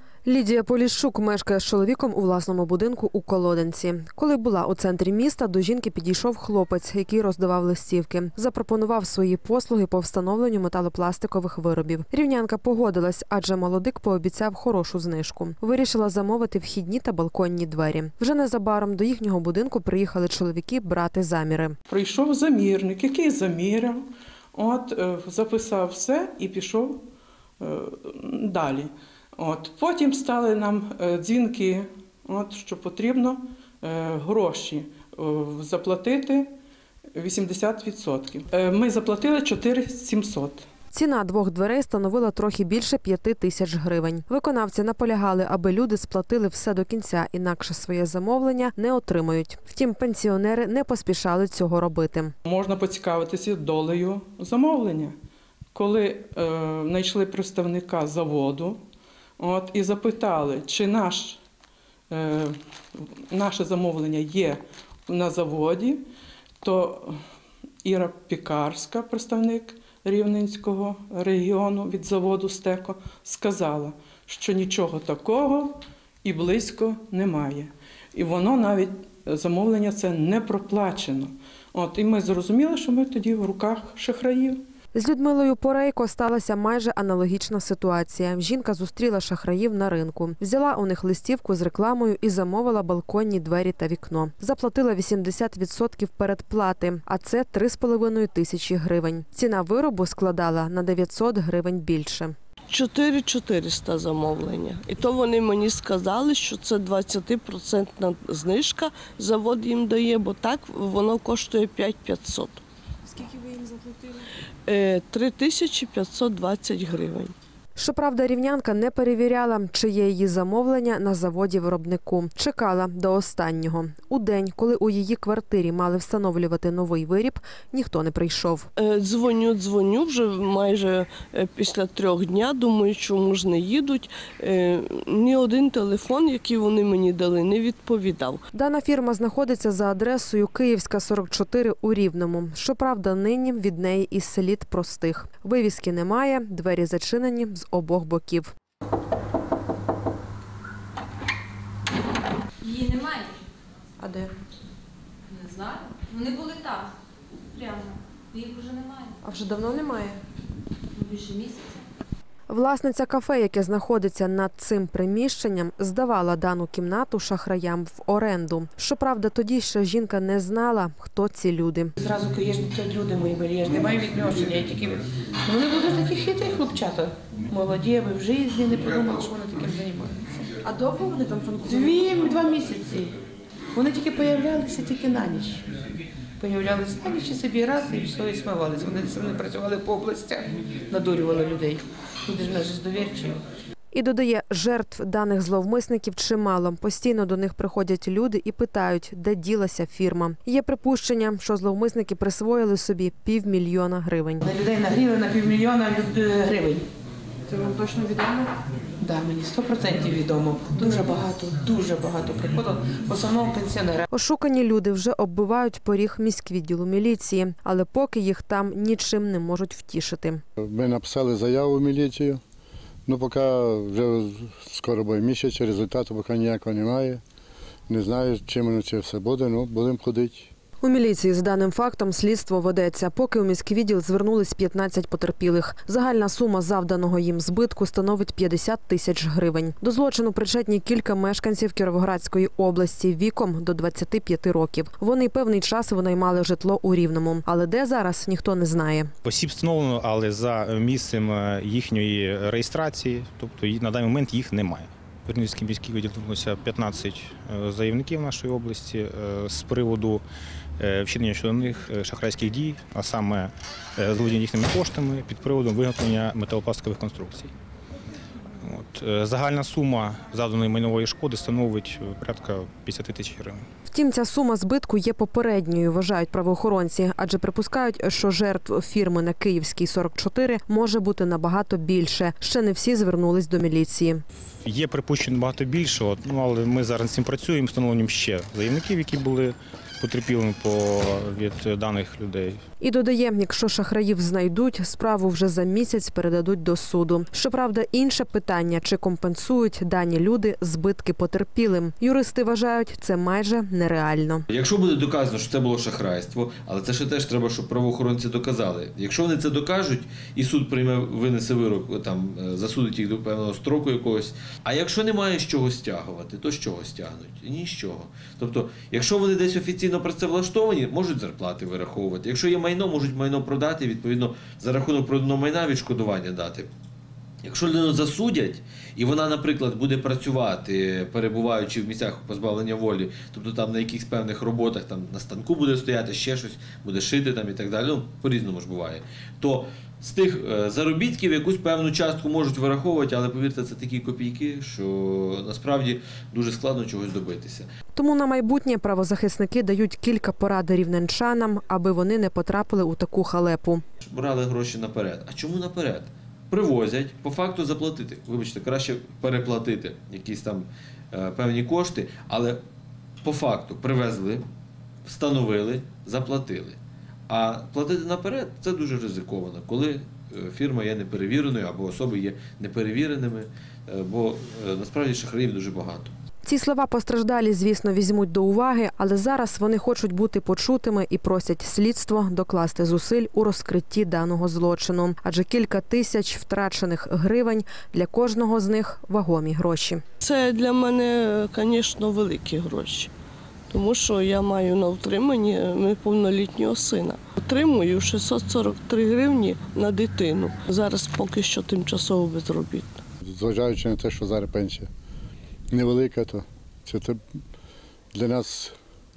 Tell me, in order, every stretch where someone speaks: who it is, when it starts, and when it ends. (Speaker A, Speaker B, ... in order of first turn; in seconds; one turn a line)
Speaker A: 0.3-21.8
Speaker B: 21.9-27.0
Speaker B: 27.6-36.5
Speaker B: 37.1-40.7
Speaker A: 40.9-52.4
Speaker B: 52.5-55.2
Speaker B: 55.7-58.8
Speaker B: 59.4-61.4
Speaker B: 62.1-66.0
Speaker B: 66.6-67.2
Speaker B: 67.8-84.6
Speaker A: 85.0-102.3
Speaker C: 102.7-112.6
Speaker C: 114.7-117.3
Speaker A: 117.8-128.7
Speaker C: 128.8-138.4
Speaker A: 138.5-148.5
Speaker D: 152.6-153.4
Speaker A: 154.0-154.3
Speaker D: 155.3-156.9
Speaker D: 157.5-159.2
Speaker A: 159.2-160.2
Speaker D: 161.0-161.8
Speaker A: 162.5-171.9
Speaker E: 172.0-180.5
Speaker A: 180.9-181.8
Speaker E: 181.6-183.2
Speaker E: 183.7-185.7
Speaker E: 186.4-193.4
Speaker A: 193.9-204.4
Speaker E: 204.5-206.9
Speaker E: 207.5-208.5
Speaker E: 209.0-214.1
Speaker A: 214.1-220.4
Speaker F: 220.6-222.4
Speaker F: 223.1-227.2
Speaker F: 227.9-230.5
Speaker A: 230.8-249.1
Speaker G: 249.2-260.2
Speaker G: 260.8-267.5
Speaker G: 268.6-273.6
Speaker A: 273.9-284.2
Speaker G: 284.6-292.6
Speaker A: 292.8-304.5
Speaker H: 304.5-326.7
Speaker H: 327.4-347.7
Speaker A: 347.9-353.8
Speaker H: 354.0-362.6
Speaker H: 363.2-364.4
Speaker H: 365.1-366.8
Speaker H: 367.3-376.1
Speaker A: 376.4-390.0
Speaker C: 390.2-393.1
Speaker C: 393.7-403.0
Speaker F: 403.2-404.9
Speaker F: 405.7-407.2
Speaker F: 408.1-408.7